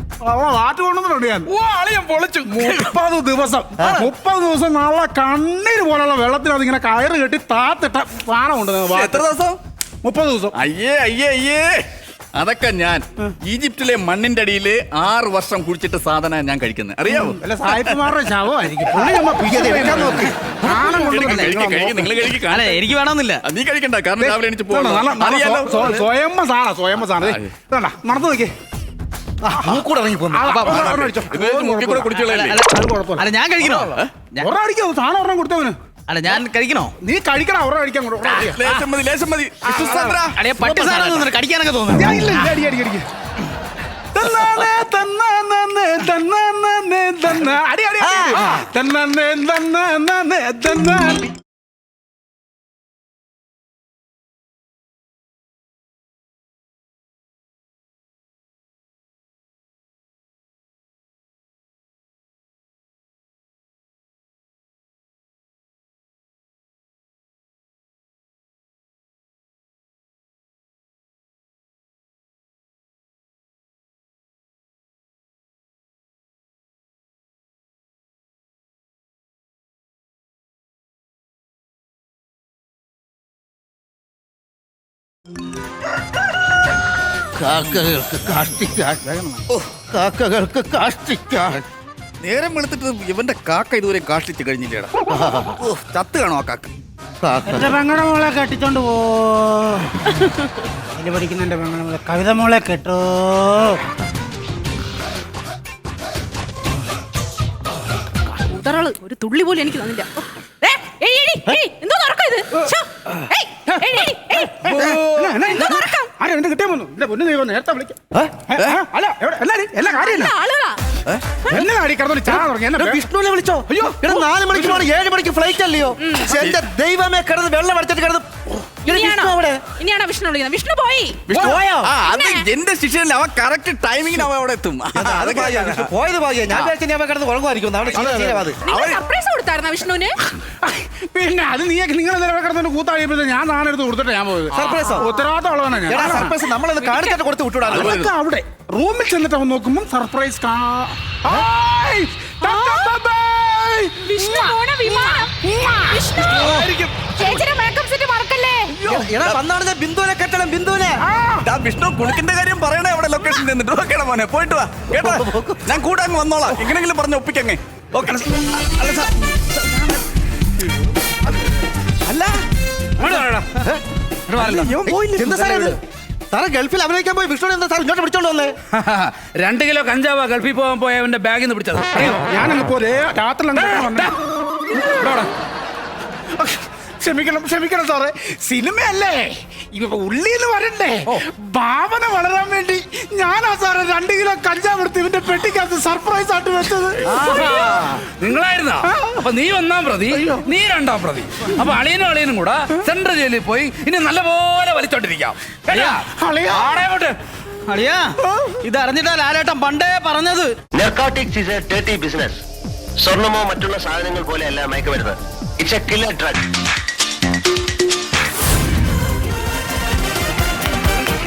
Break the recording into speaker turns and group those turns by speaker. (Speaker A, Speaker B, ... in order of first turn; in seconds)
Speaker A: 0.2-1.5, 2.4-9.2, 10.0-10.6, 17.1-22.2, 24.2-28.5, 29.6-35.8, 37.0-38.8, 39.6-40.2, 41.9-43.1, 44.1-51.3, 97.5-99.8, 101.0-103.2, 113.7-118.0, 118.5-120.3, 121.5-123.0, 140.5-146.4, 147.7-156.4, 161.0-161.5, 182.1-184.1, 184.7-185.3, 186.3-197.5, 198.8-199.1, 206.2-206.7
Speaker B: 1.4-2.9, 123.7-124.2, 137.9-138.4, 156.2-157.3
Speaker C: 3.8-4.1, 19.4-20.9, 29.4-30.6, 48.0-48.6, 87.3-89.2, 89.9-91.6, 95.1-95.7, 97.2-97.8, 118.1-118.5, 122.3-129.6, 131.3-131.9, 134.9-138.6, 144.5-145.1, 145.9-147.9, 158.8-161.0, 164.9-165.7, 174.8-175.8, 176.3-178.5
Speaker D: 8.9-9.6, 10.5-18.2, 20.9-22.8, 23.4-26.1, 27.0-27.5, 30.5-32.6, 38.3-41.2, 92.2-94.9, 95.6-96.7, 114.6-115.5, 126.3-126.6, 131.3-135.9, 138.2-139.0, 147.7-148.1, 158.8-159.4, 161.4-168.7, 172.1-172.3, 174.3-175.6
Speaker E: 21.1-21.5, 22.5-23.4, 32.1-34.5, 36.1-36.9, 40.3-42.2, 168.8-169.0, 205.7-206.0, 207.7-210.5
Speaker F: 108.3-114.7, 115.4-116.1, 119.8-120.8, 126.0-126.3, 128.8-131.3, 132.0-132.5, 138.6-140.2, 144.7-145.1, 146.8-147.2, 152.4-153.0, 154.0-158.7
Speaker G: 173.0-173.4, 174.3-174.6, 178.7-182.3, 197.1-207.2
Speaker H: 210.7-212.4, 213.0-216.4